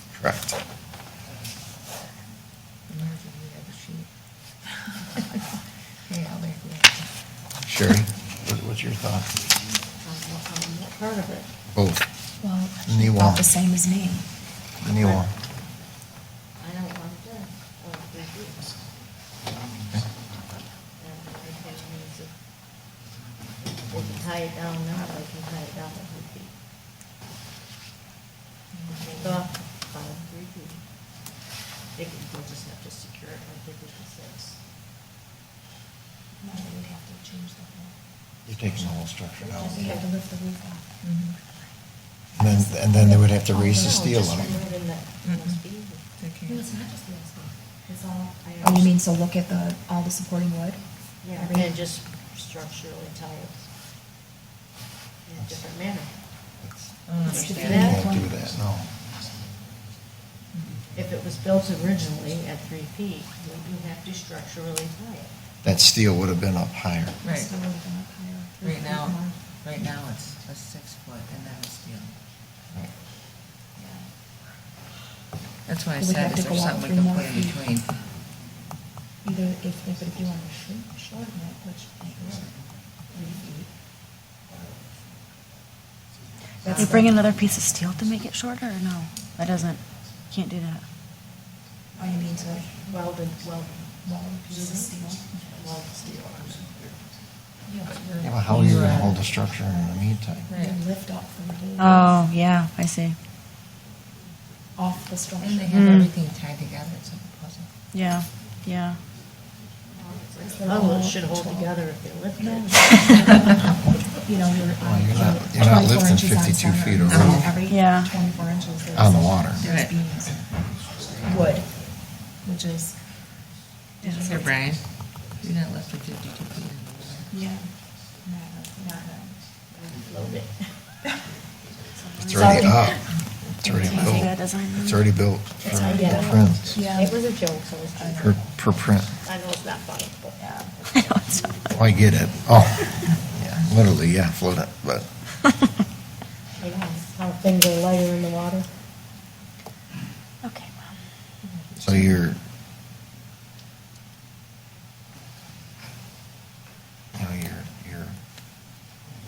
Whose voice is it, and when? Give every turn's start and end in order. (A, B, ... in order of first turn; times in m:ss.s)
0:00.1-0:00.6 A
0:02.9-0:04.1 B
0:06.1-0:07.1 B
0:07.6-0:09.3 A
0:10.0-0:11.5 C
0:11.7-0:12.0 A
0:12.4-0:14.3 D
0:12.9-0:13.5 A
0:14.8-0:15.3 A
0:15.0-0:15.3 C
0:16.6-0:18.8 C
0:21.0-0:22.3 C
0:23.7-0:26.5 C
0:28.9-0:30.8 C
0:32.0-0:34.6 C
0:36.4-0:37.9 D
0:38.5-0:40.0 A
0:39.4-0:40.1 C
0:39.6-0:40.8 D
0:41.0-0:41.4 B
0:42.4-0:44.6 A
0:42.8-0:43.2 D
0:42.8-0:46.0 C
0:45.2-0:45.6 B
0:46.2-0:46.7 B
0:46.5-0:50.8 D
0:48.4-0:49.0 C
0:51.2-0:53.7 C
0:51.3-0:51.7 D
0:55.2-0:56.1 C
0:57.1-0:58.0 B
0:57.2-0:58.2 C
0:57.2-0:58.3 D
0:57.5-0:58.9 A
1:01.0-1:05.3 C
1:05.6-1:07.2 A
1:07.2-1:07.6 B
1:07.2-1:09.4 D
1:08.6-1:12.2 B
1:13.8-1:14.1 D
1:15.7-1:18.0 B
1:16.0-1:17.6 D
1:19.2-1:22.5 D
1:23.1-1:23.7 D
1:26.6-1:27.2 D
1:26.7-1:30.8 E
1:32.0-1:32.8 D
1:32.9-1:34.0 C
1:34.0-1:35.4 D
1:34.5-1:36.8 C
1:37.7-1:38.0 D
1:37.9-1:39.2 B
1:38.2-1:40.5 A
1:40.5-1:40.8 B
1:40.5-1:42.3 D
1:41.8-1:43.2 E
1:44.8-1:45.9 D
1:45.4-1:47.7 B
1:45.7-1:46.1 E
1:47.9-1:49.0 E
1:49.9-1:53.7 C
1:50.5-1:51.7 D
1:52.4-2:00.4 D
1:54.8-1:57.5 A
1:57.1-1:57.5 B
1:57.6-1:58.2 E
1:58.9-1:59.6 A
1:59.6-2:00.0 B
2:01.2-2:01.7 D
2:02.4-2:03.0 D
2:04.0-2:04.3 E
2:04.1-2:04.5 D
2:04.1-2:07.3 B
2:07.3-2:07.7 D
2:08.2-2:09.4 D
2:09.7-2:10.7 C
2:12.0-2:12.5 E
2:12.3-2:16.8 A
2:12.3-2:13.0 C
2:13.6-2:15.1 E
2:13.9-2:14.2 C
2:15.7-2:16.1 E
2:15.7-2:17.2 D
2:15.9-2:18.5 C
2:18.2-2:19.1 A
2:19.2-2:20.4 C
2:20.4-2:21.7 E
2:21.7-2:25.1 A
2:26.6-2:28.7 C
2:30.4-2:30.8 E
2:31.5-2:31.8 B
2:31.8-2:32.4 A
2:37.1-2:38.2 A